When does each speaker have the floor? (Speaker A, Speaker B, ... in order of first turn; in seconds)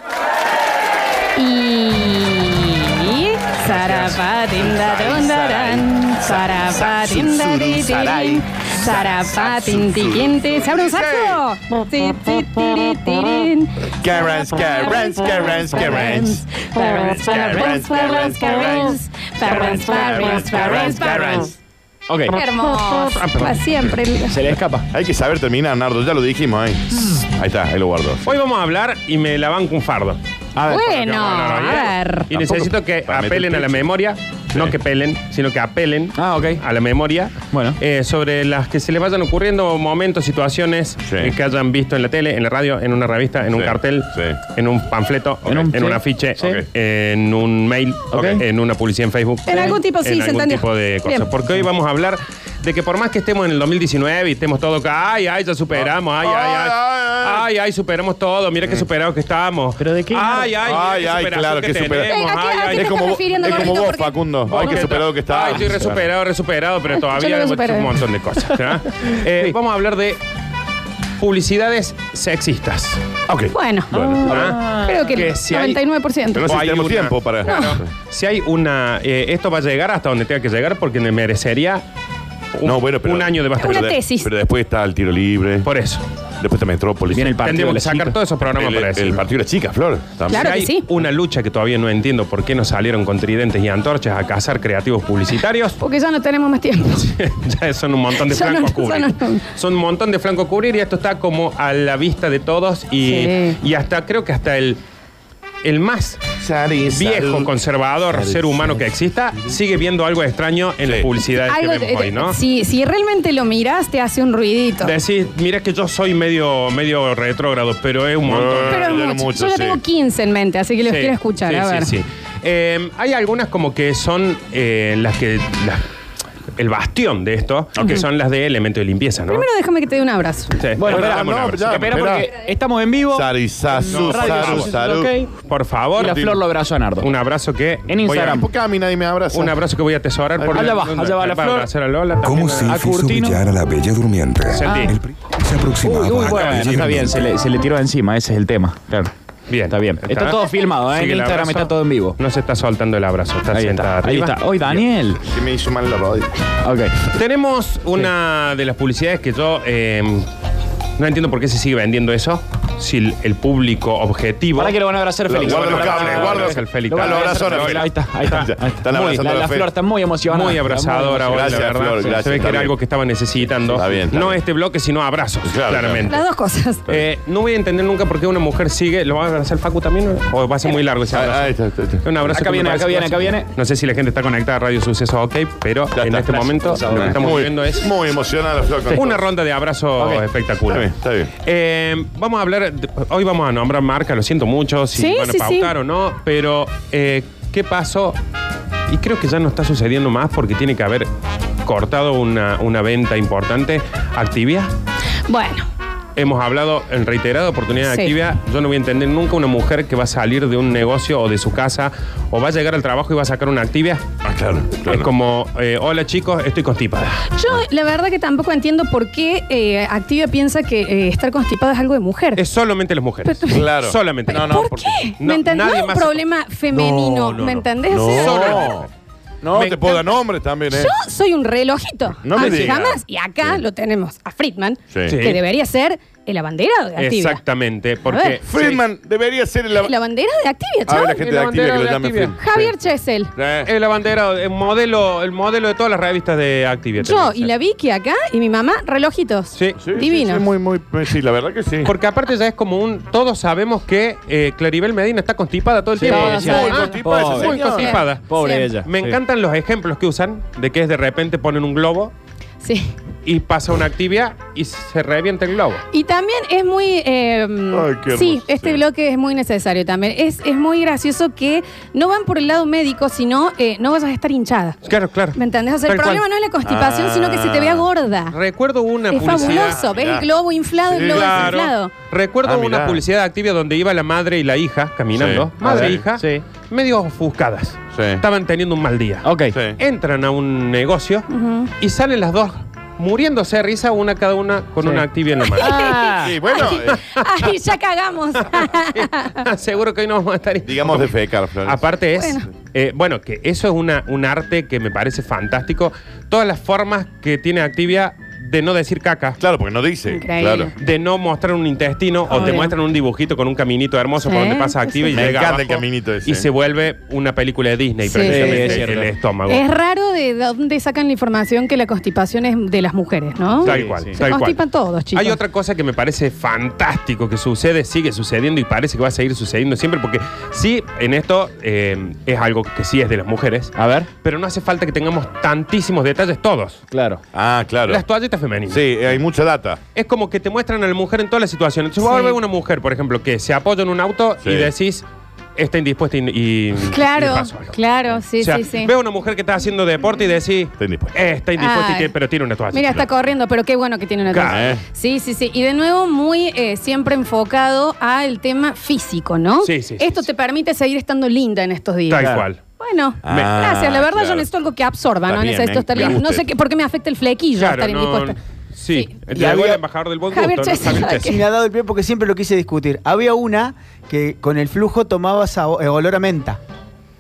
Speaker A: 1.4-21.5, 22.3-24.4, 30.7-32.3, 49.5-51.3, 62.1-64.2, 67.1-68.0, 73.5-74.0, 74.6-76.5, 77.5-77.8, 83.6-84.3, 90.3-90.9, 95.8-97.1, 98.2-99.5, 103.0-103.6, 111.4-114.9, 118.7-121.9, 129.3-130.6, 176.1-176.9, 194.9-195.7, 205.3-205.7, 207.9-208.2, 217.3-222.4, 223.2-223.7, 224.3-228.7, 230.7-237.4, 238.1-238.4, 239.8-241.2, 242.4-243.3, 247.0-250.5, 256.0-258.8, 262.6-262.9, 265.9-274.8, 275.4-278.4, 279.1-281.9, 291.3-291.7, 295.4-299.4, 302.1-302.5, 310.1-310.7, 312.3-312.7, 314.2-315.2, 318.1-318.8, 319.5-325.4, 342.0-342.4, 346.9-348.9, 351.6-352.1, 352.7-368.4, 370.3-371.4
Speaker B: 4.7-11.4, 13.9-16.4, 17.1-18.6, 24.9-28.2, 32.3-33.9, 41.1-41.4, 43.5-44.4, 46.4-46.7, 48.1-48.4, 55.8-57.5, 60.6-62.1, 62.7-66.0, 73.3-74.5, 76.3-77.9, 82.6-85.7, 86.4-87.5, 88.6-90.5, 106.4-107.5, 108.1-108.8, 118.2-119.8, 130.8-132.3, 133.1-135.1, 136.0-136.4, 138.3-139.6, 140.4-140.9, 155.2-156.3, 165.3-169.7, 171.3-172.8, 173.7-174.4, 175.4-176.1, 181.1-182.1, 186.0-189.2, 190.7-191.3, 214.2-215.1, 223.5-225.1, 227.9-228.9, 229.4-230.9, 232.2-233.6, 234.9-235.2, 238.5-239.9, 240.9-242.7, 243.4-243.7, 249.8-251.9, 256.1-257.9, 267.7-268.8, 276.6-277.9, 279.2-280.3, 280.9-281.5, 282.4-283.0, 285.1-286.1, 287.9-288.2, 289.5-289.8, 296.2-297.0, 300.6-301.9, 309.4-310.7, 315.1-316.5, 337.3-338.0, 338.7-339.8, 344.4-344.7, 350.8-351.1, 354.5-354.8, 363.2-364.5, 365.3-366.5
Speaker C: 17.7-21.5, 22.1-22.4, 24.3-24.9, 30.6-30.9, 36.2-36.6, 37.5-37.8, 45.5-46.6, 59.8-60.6, 64.5-64.8, 74.2-75.0, 87.1-88.2, 130.8-135.3, 136.0-137.1, 137.9-138.5, 140.5-141.7, 142.7-143.4, 145.8-149.1, 149.7-152.2, 153.5-155.2, 156.6-157.1, 164.6-172.3, 182.3-183.5, 186.5-187.4, 190.0-190.2, 256.0-257.6, 258.3-259.2, 285.6-286.4, 289.2-289.6, 295.7-296.4, 318.2-319.1, 323.6-324.2, 333.8-334.1, 336.9-337.2
Speaker D: 19.8-20.8, 23.2-23.9, 28.2-30.2, 30.7-63.9, 64.5-70.2, 71.2-73.0, 74.2-75.8, 76.4-81.8, 82.5-83.9, 85.6-86.0, 87.4-89.2, 90.3-95.8, 97.0-104.8, 105.6-106.2, 106.9-112.4, 114.8-119.0, 120.9-125.9, 126.6-129.5, 130.6-131.9, 133.9-134.7, 135.5-136.3, 137.0-138.4, 139.3-142.8, 144.5-145.0, 146.2-146.9, 149.5-154.9, 157.1-160.3, 161.0-167.9, 170.3-176.2, 176.9-181.5, 182.0-187.9, 188.9-190.9, 191.4-198.2, 198.9-201.1, 201.7-204.7, 206.2-214.0, 214.9-217.2, 222.4-224.6, 225.2-228.9, 229.5-230.0, 232.3-232.8, 235.1-235.4, 237.0-238.8, 241.1-242.4, 243.6-247.5, 251.8-258.3, 258.8-262.1, 263.2-265.8, 274.9-276.2, 278.3-279.8, 281.0-291.3, 291.8-296.0, 298.5-309.4, 310.8-319.6, 323.6-324.6, 325.1-336.8, 337.9-338.8, 339.9-345.1, 345.6-353.0, 354.3-354.7, 359.6-360.2, 362.1-362.6, 367.6-371.3
Speaker E: 142.2-147.3
Speaker F: 369.3-369.8, 371.2-376.6